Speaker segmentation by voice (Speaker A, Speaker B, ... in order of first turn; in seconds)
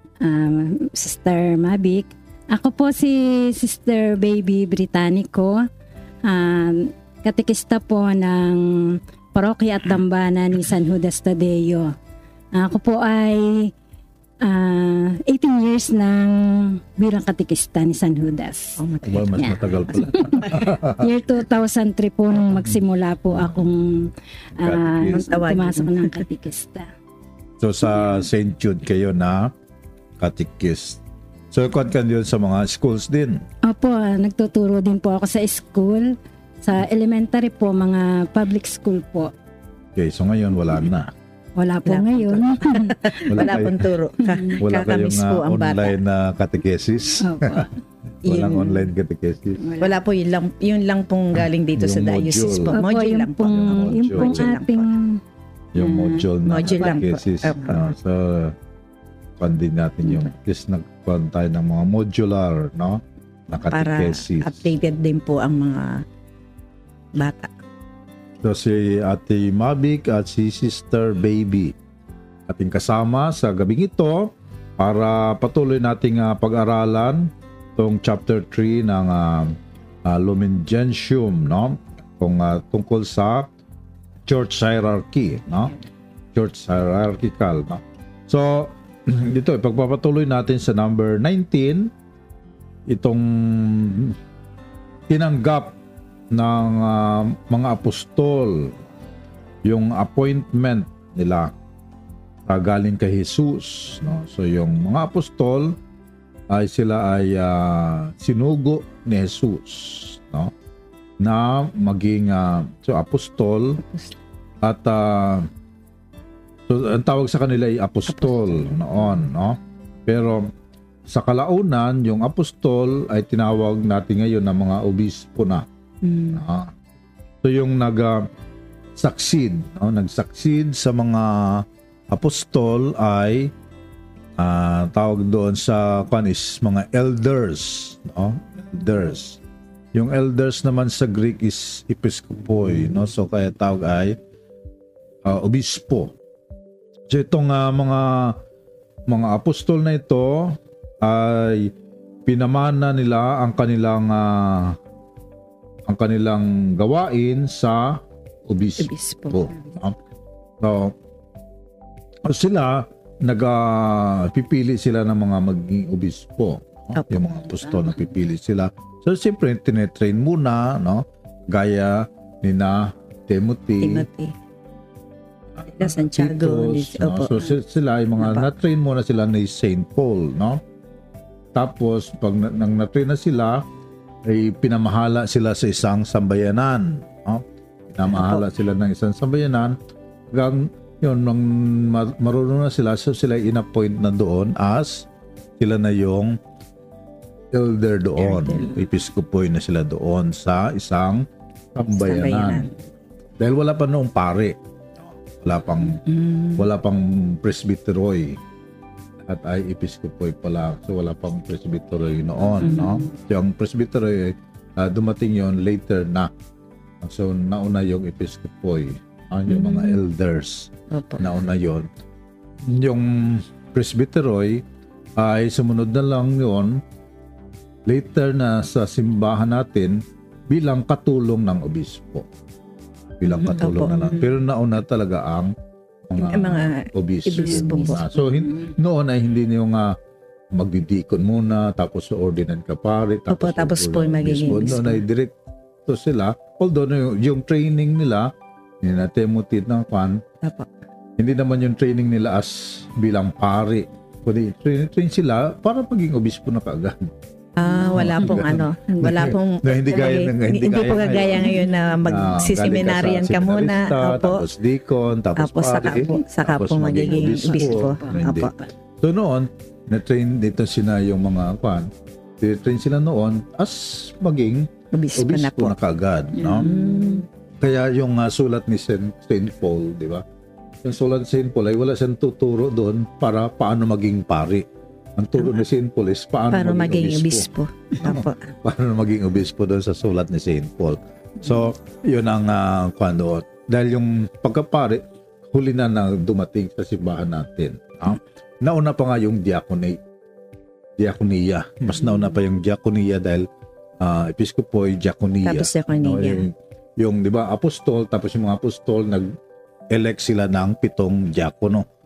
Speaker A: 0.2-5.6, 6.2-11.9, 12.5-13.7, 14.4-18.8, 20.1-26.9, 33.6-39.3, 41.6-43.6, 44.2-44.6, 47.2-47.7, 49.6-50.0, 52.7-55.2, 55.8-56.7, 237.5-238.7, 258.9-259.2, 267.3-268.3, 276.4-277.2
Speaker B: 18.8-20.7, 25.1-26.2, 41.9-46.0, 48.2-48.9, 49.8-54.9, 56.4-58.0, 63.6-66.0, 67.1-67.5, 113.8-114.2, 118.1-119.0, 126.0-126.4, 158.8-159.5, 173.8-174.3, 175.8-177.6, 178.2-178.5, 188.1-188.4, 198.2-198.8, 201.9-202.7, 205.8-206.7, 212.6-213.1, 219.5-220.0, 220.9-221.3, 233.2-234.3, 236.2-238.1, 243.3-245.0, 250.4-250.7, 257.6-264.4, 265.4-268.5, 274.9-275.7, 276.6-277.2, 286.5-288.5, 305.4-306.4
Speaker C: 19.0-21.0, 23.3-23.6, 24.6-25.2, 27.6-29.5, 30.2-31.0, 31.5-33.4, 39.9-41.1, 43.3-43.8, 44.6-47.7, 48.2-49.6, 51.8-52.8, 53.4-54.5, 55.7-58.5, 59.4-64.7, 68.4-71.7, 72.5-83.5, 84.3-85.7, 86.3-91.9, 92.9-94.2, 95.1-95.8, 96.3-98.8, 99.6-101.5, 102.5-105.7, 106.5-110.5, 111.2-113.8, 114.6-115.5, 116.7-120.5, 121.1-125.7, 126.3-126.7, 127.4-128.2, 129.0-133.5, 134.4-139.4, 139.9-144.2, 145.2-146.1, 147.1-148.4, 149.1-151.7, 152.2-154.8, 155.9-159.9, 160.6-160.9, 162.2-174.1, 175.6-180.6, 181.6-183.6, 184.3-189.8, 190.3-195.1, 195.6-196.4, 197.5-202.7, 203.4-204.6, 205.1-206.0, 206.6-208.4, 209.2-216.3, 217.0-221.9, 222.6-224.6, 225.2-226.8, 227.9-232.3, 233.2-235.5, 236.1-239.9, 240.5-245.3, 245.8-248.3, 248.8-250.2, 251.2-257.0, 257.9-261.5, 262.1-276.6, 277.6-280.2, 280.8-284.6, 285.2-300.0, 301.0-303.5, 304.0-309.3, 309.9-311.9